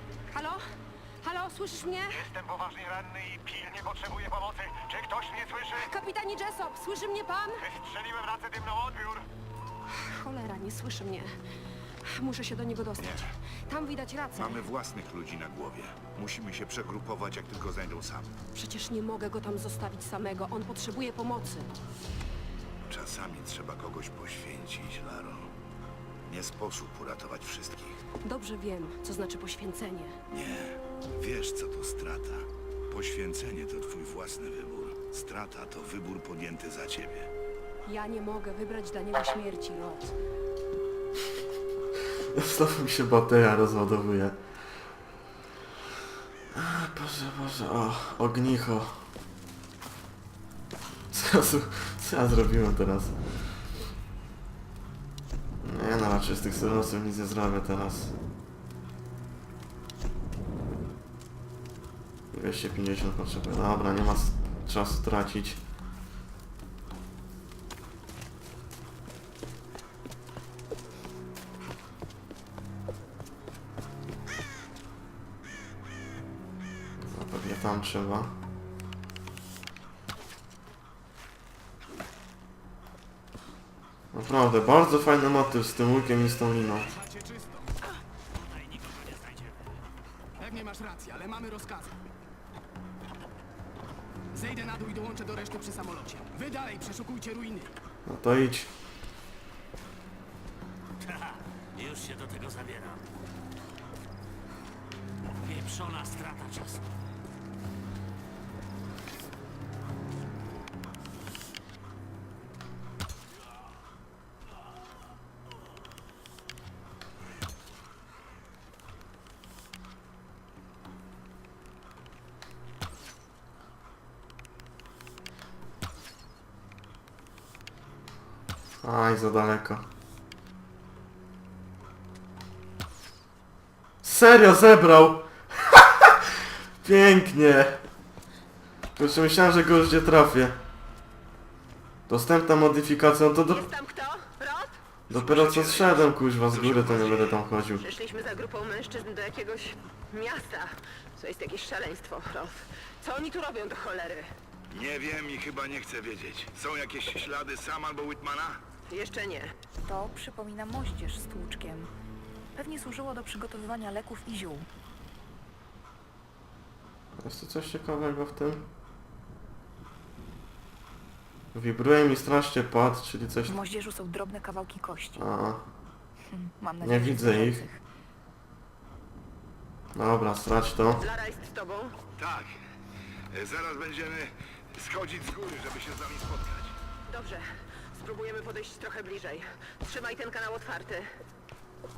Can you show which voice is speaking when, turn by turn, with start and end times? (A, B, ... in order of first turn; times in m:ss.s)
0:00.3-0:00.6 A
0:01.2-0:02.4 A
0:03.0-0:04.1 B
0:05.6-0:07.8 A
0:08.2-0:09.0 B
0:09.9-0:11.4 A
0:12.0-0:14.6 A
0:13.0-0:13.3 C
0:14.3-0:18.3 C
0:18.5-0:21.7 A
0:22.9-0:25.5 C
0:26.3-0:28.0 C
0:28.2-0:30.2 A
0:30.3-0:37.3 C
0:37.8-0:40.2 A
0:42.3-0:44.4 D
0:46.5-0:49.0 D
0:51.1-0:53.2 D
0:55.6-0:58.1 D
1:02.3-1:05.6 D
1:17.0-1:18.4 D
1:24.1-1:26.9 D
1:27.0-1:27.6 E
1:28.8-1:29.6 F
1:30.4-1:31.9 E
1:34.3-1:37.7 E
1:38.1-1:38.7 D
1:41.0-1:43.0 F
1:45.4-1:46.8 F
2:08.8-2:09.9 D
2:14.0-2:16.3 D
2:16.8-2:17.8 D
2:19.0-2:20.6 D
2:22.1-2:23.7 D
2:23.5-2:24.8 G
2:25.1-2:27.9 D
2:25.2-2:27.4 C
2:27.8-2:34.3 G
2:34.7-2:38.6 C
2:38.9-2:39.5 G
2:39.9-2:41.9 H
2:42.6-2:44.7 H
2:47.2-2:48.7 D
2:51.5-2:53.6 D
2:53.5-2:55.2 H
2:55.2-2:55.7 D
2:56.3-2:57.8 H
2:56.8-2:57.6 D
3:00.0-3:01.1 D
3:01.0-3:02.0 G
3:02.2-3:02.5 C
3:03.3-3:06.8 C
3:08.0-3:11.1 G
3:08.0-3:08.8 A